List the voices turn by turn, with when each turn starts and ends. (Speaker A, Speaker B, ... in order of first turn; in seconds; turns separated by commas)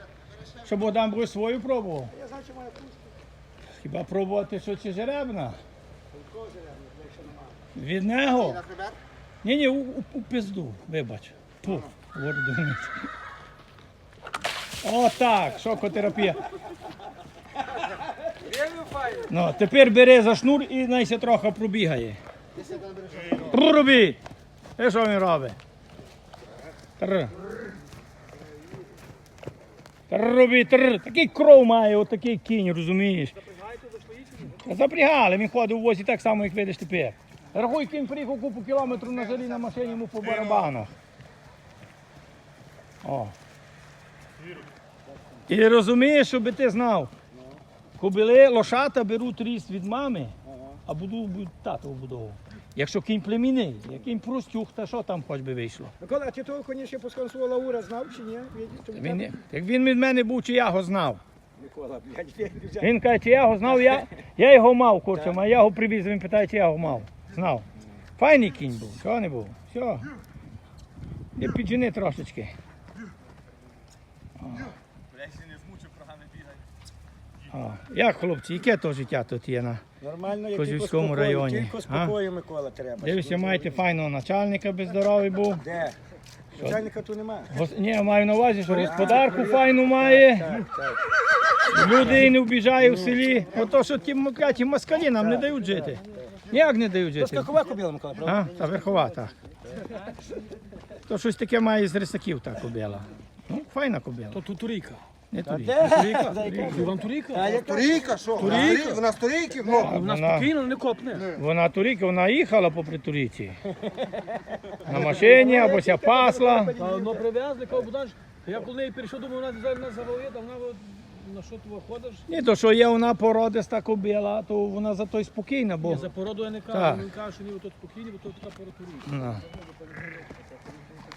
Speaker A: 0.6-2.1, Speaker B: 2.1-3.1, Speaker A: 3.8-5.6, Speaker B: 6.1-7.6, Speaker A: 7.8-8.7, Speaker C: 8.7-8.9, Speaker A: 9.4-12.9, Speaker A: 14.8-16.4, Speaker A: 19.3-22.2, Speaker C: 22.6-23.4, Speaker A: 23.4-24.2, Speaker A: 24.8-25.6, Speaker A: 27.0-27.3, Speaker A: 30.1-33.4, Speaker D: 33.4-34.5, Speaker A: 34.4-40.9, Speaker A: 43.0-43.3, Speaker A: 45.5-47.1, Speaker A: 48.0-50.3, Speaker B: 50.5-50.8, Speaker A: 50.9-55.9, Speaker B: 56.0-59.2, Speaker A: 58.9-61.2, Speaker B: 61.6-62.9, Speaker A: 62.8-67.7, Speaker A: 68.2-70.1, Speaker A: 71.3-72.5, Speaker A: 74.4-74.7, Speaker A: 77.5-79.8, Speaker B: 80.0-83.8, Speaker A: 80.5-82.1, Speaker A: 83.0-85.6, Speaker B: 85.6-86.0, Speaker B: 86.5-87.6, Speaker A: 87.5-90.6, Speaker B: 88.6-91.0, Speaker A: 91.7-97.5, Speaker B: 95.2-95.6, Speaker B: 97.2-98.5, Speaker A: 98.2-99.4, Speaker A: 101.1-104.4, Speaker D: 104.3-105.0, Speaker A: 105.3-106.9, Speaker B: 105.4-108.8, Speaker D: 105.8-107.5, Speaker C: 107.6-109.9, Speaker D: 108.4-109.0, Speaker A: 108.4-108.7, Speaker D: 109.7-111.3, Speaker A: 109.8-110.5, Speaker A: 111.3-113.6, Speaker B: 113.9-114.2, Speaker B: 114.8-117.2, Speaker A: 114.9-116.7, Speaker D: 116.8-122.2, Speaker A: 122.3-126.1, Speaker D: 125.8-129.1, Speaker A: 126.7-127.1, Speaker A: 129.1-129.4